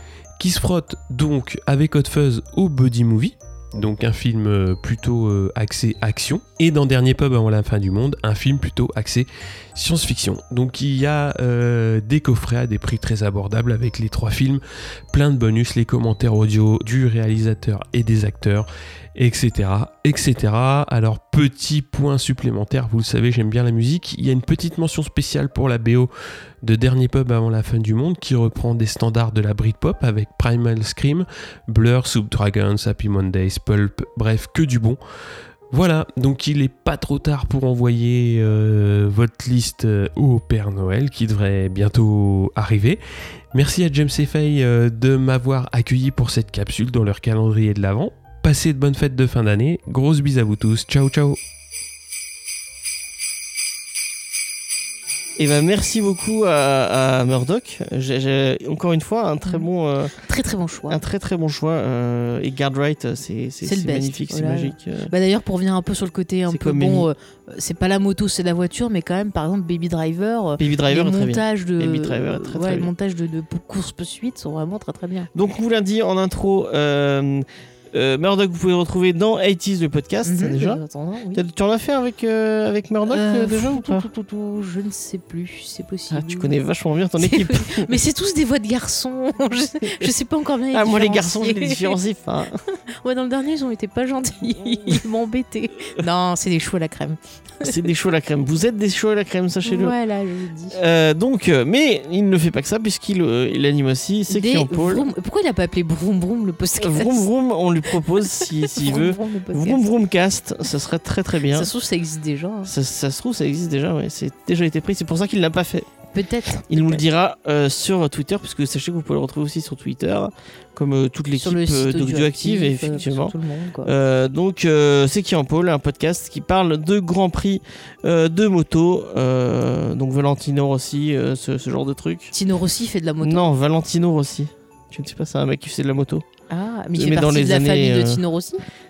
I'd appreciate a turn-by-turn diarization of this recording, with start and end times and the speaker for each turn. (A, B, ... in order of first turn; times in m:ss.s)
0:00.4-0:26.1 A
0:26.6-0:35.0 A
0:35.7-0:43.0 A
0:43.5-0:51.4 A
0:55.4-1:00.1 B
1:00.2-1:01.0 C
1:00.9-1:05.1 B
1:03.6-1:15.3 C
1:06.5-1:07.1 B
1:10.6-1:12.9 B
1:15.3-1:20.8 B
1:20.2-1:21.4 C
1:21.3-1:24.1 B
1:23.1-1:26.5 C
1:26.1-1:27.9 B
1:27.2-1:31.9 C
1:30.7-1:32.6 B
1:33.0-1:37.7 C
1:37.6-1:39.9 B
1:39.6-1:40.8 C
1:40.7-1:45.1 B
1:44.3-1:47.2 C
1:46.8-1:51.7 B
1:48.2-1:49.9 C
1:51.5-1:52.7 C
1:52.6-1:55.9 B
1:56.1-1:57.0 C
1:56.7-2:03.3 B
2:01.4-2:03.9 C
2:03.8-2:12.3 B
2:12.3-2:13.4 C
2:13.2-2:16.2 B
2:16.5-2:18.6 C
2:16.9-2:18.2 B